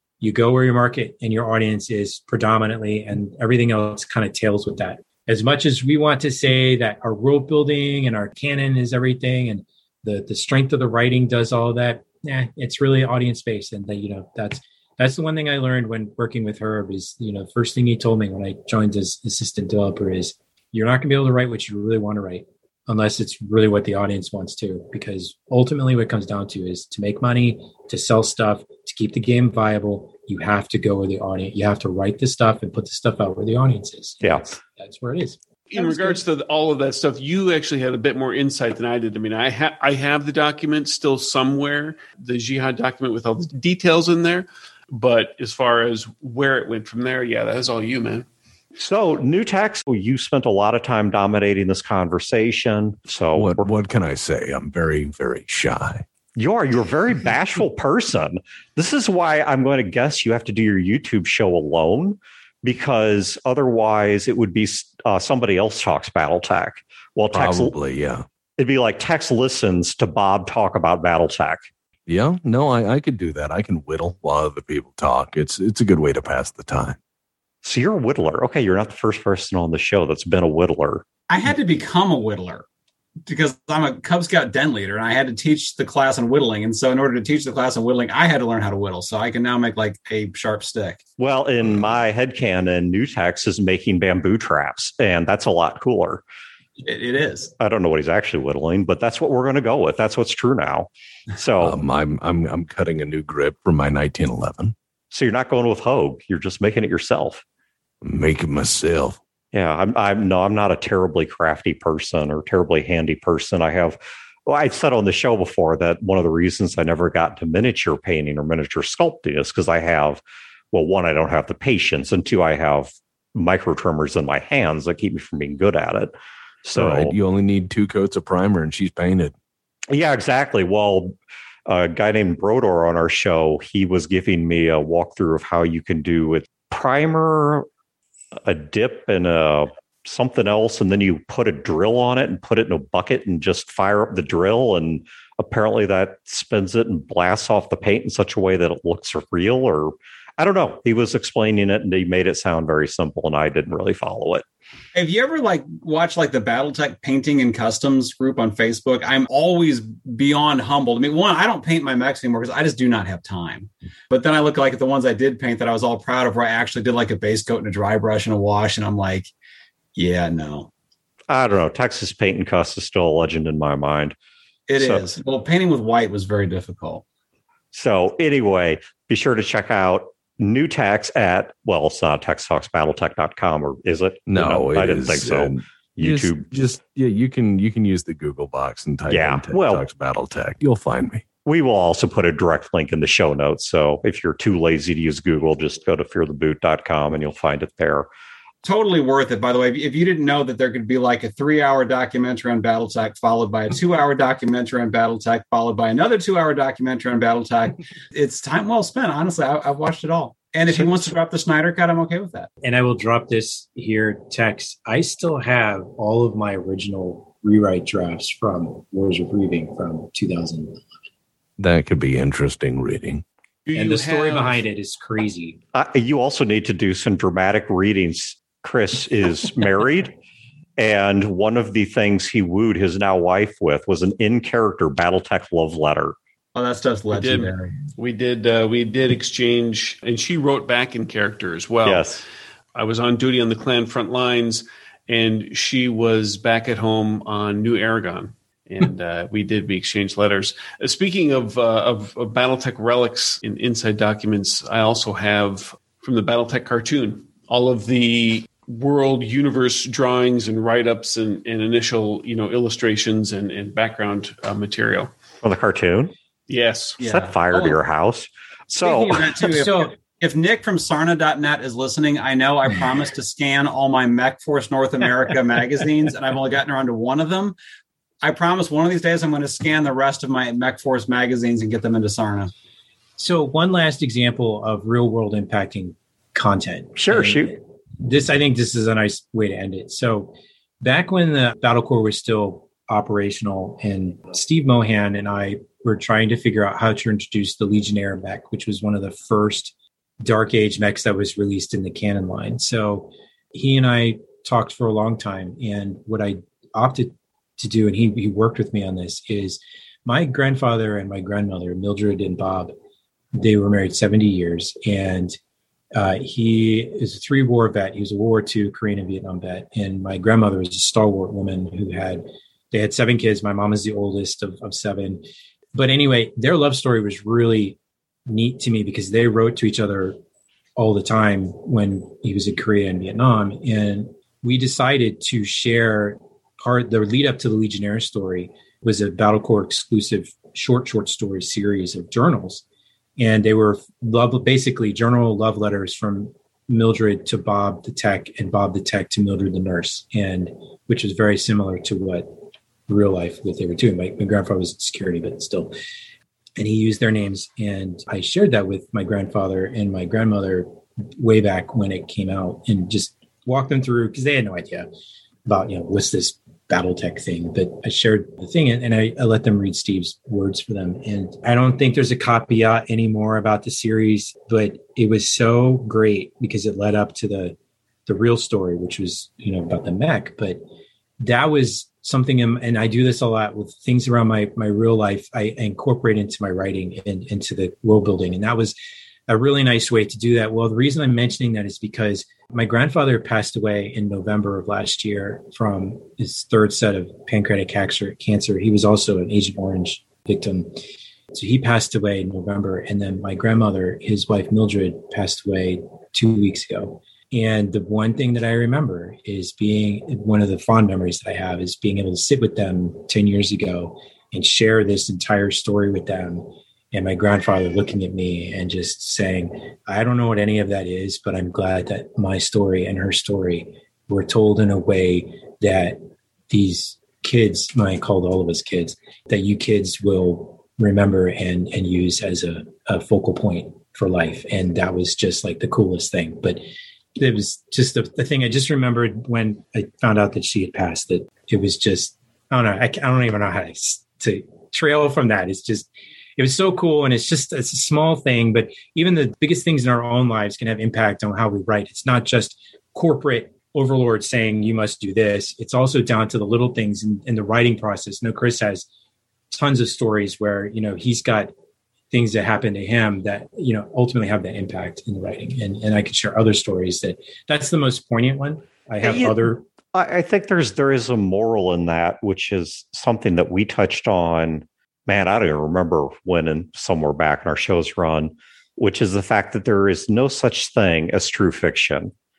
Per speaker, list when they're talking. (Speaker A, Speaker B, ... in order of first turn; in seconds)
Speaker A: 0.2-36.2, 212.6-220.9, 223.7-225.6, 268.8-269.9, 283.2-312.7, 313.3-315.4, 315.9-325.2, 325.7-330.2, 330.8-342.6, 343.2-355.7, 356.6-364.9, 365.4-377.6, 378.1-380.6, 381.2-388.7, 389.3-426.0, 426.5-436.6, 437.2-458.9, 459.5-461.5, 462.1-469.6
Speaker B: 34.2-34.5, 48.8-53.6, 56.4-67.7, 68.6-71.6, 77.6-81.0, 91.2-96.2, 97.6-101.8, 105.1-107.4, 109.5-126.1, 126.6-127.1, 129.9-131.1, 131.7-137.7, 138.4-154.4, 171.3-174.2, 174.8-175.1, 177.7-186.5, 189.1-189.9, 191.4-198.1, 210.7-211.0, 225.7-230.1, 230.8-236.2, 241.8-242.2, 265.4-266.1, 267.0-269.4, 287.0-287.5, 469.0-482.1
Speaker C: 35.7-48.3, 223.7-224.6, 237.1-242.2, 242.7-265.1, 266.5-267.0
Speaker D: 53.4-56.0, 67.3-68.3, 72.1-77.0, 101.6-104.7, 108.0-109.2, 126.7-129.3, 184.3-191.2, 221.6-223.2
Speaker E: 81.3-82.6, 83.3-91.0, 96.8-97.5, 154.9-169.3, 169.9-170.7, 174.7-177.0, 198.6-212.5, 236.6-237.5, 267.0-267.8, 268.9-277.6, 278.2-282.5